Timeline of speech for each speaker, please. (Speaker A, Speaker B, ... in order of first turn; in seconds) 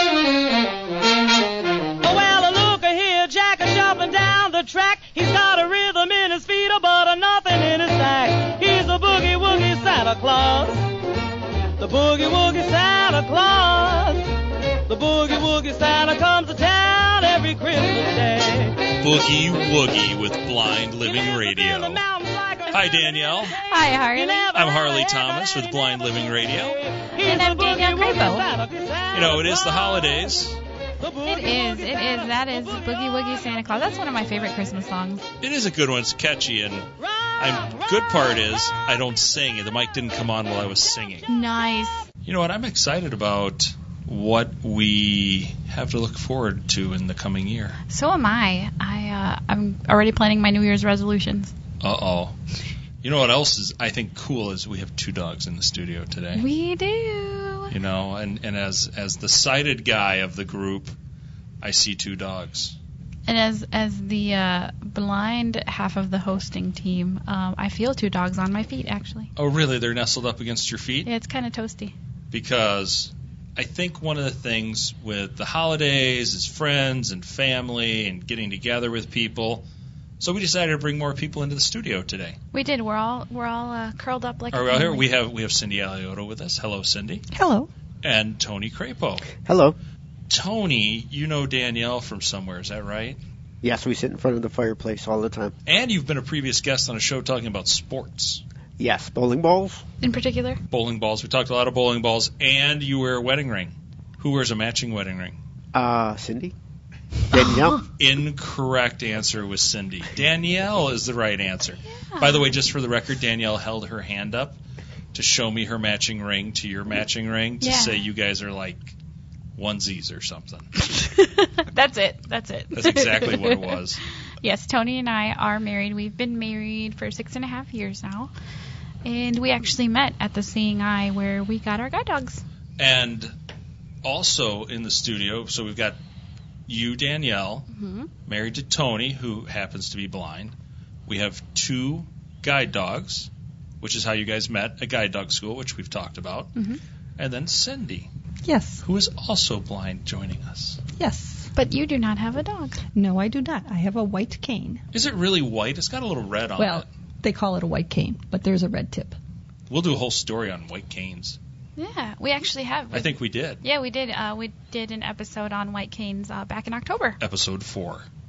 Speaker A: 2.0-10.9, 11.8-14.3, 14.9-18.9, 21.7-22.7, 27.1-30.2
Speaker B: 18.9-22.1, 22.7-23.6, 24.5-26.8, 29.1-30.6, 35.4-41.3, 42.2-47.8, 51.8-52.4, 53.0-56.5, 57.7-61.0, 61.6-62.8, 69.4-71.1, 72.3-79.7, 80.2-82.4, 84.5-87.3, 88.0-89.3, 90.3-93.2, 95.7-98.4, 100.7-105.4, 108.0-114.6, 115.1-119.0, 119.5-120.7, 122.7-124.0, 132.8-133.3, 134.0-136.0, 136.7-137.7, 138.3-140.5, 141.1-143.3, 143.8-146.6, 147.2-148.1, 148.8-150.8, 154.9-156.9, 159.7-161.4, 162.9-163.6, 167.2-168.1
Speaker C: 23.5-24.6, 27.2-28.5, 31.2-35.2, 41.3-42.0, 47.9-51.5, 56.4-57.7, 63.3-69.3, 71.0-72.0, 82.5-85.1, 100.0-100.6, 107.3-107.8, 111.9-112.5, 117.6-118.0, 121.0-123.8, 124.4-128.3, 129.1-132.4, 137.7-138.1, 151.6-152.8, 161.8-167.2
Speaker D: 87.3-87.7, 148.4-148.8, 151.0-151.5, 152.9-154.8, 156.6-159.2
Speaker E: 89.4-89.8, 93.6-95.5, 98.8-99.8, 105.7-106.5, 107.3-107.8